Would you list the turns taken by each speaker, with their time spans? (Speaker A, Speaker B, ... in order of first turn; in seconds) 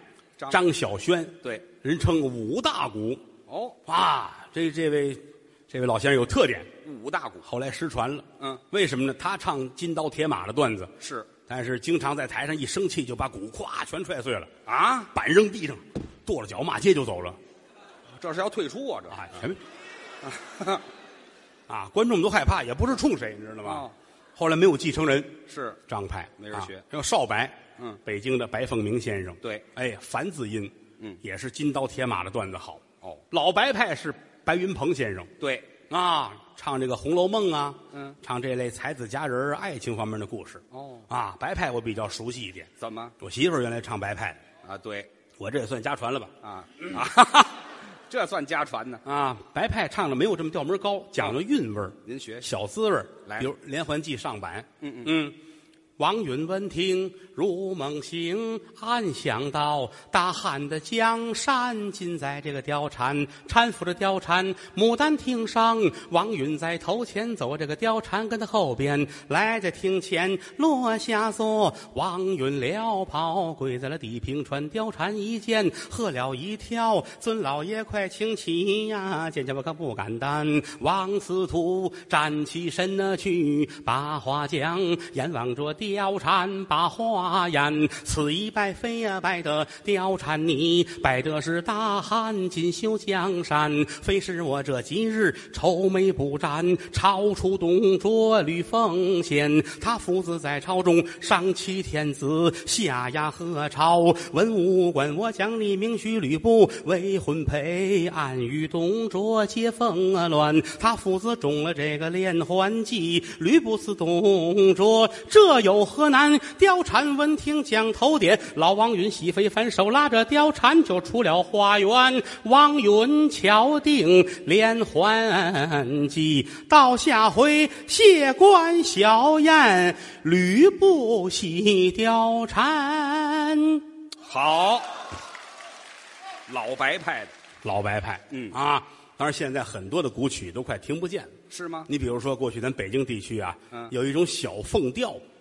Speaker A: 0.5-3.2, 3.9-6.7, 7.4-10.9, 11.5-14.5, 15.1-17.4, 19.1-19.6, 21.7-35.3, 35.9-44.4, 45.4-47.0, 49.0-55.4, 56.0-133.8, 137.6-141.3, 141.9-145.2
Speaker B: 3.5-3.8, 6.8-7.5, 11.0-11.3, 14.7-15.1, 18.2-19.4, 20.2-20.8, 23.6-23.9, 25.5-25.8, 26.4-26.8, 35.4-35.7, 40.7-41.0, 42.8-43.1, 44.6-45.1, 46.4-47.5, 48.1-49.0, 52.0-52.5, 54.8-55.1, 134.3-134.9, 136.5-137.3, 141.5-141.9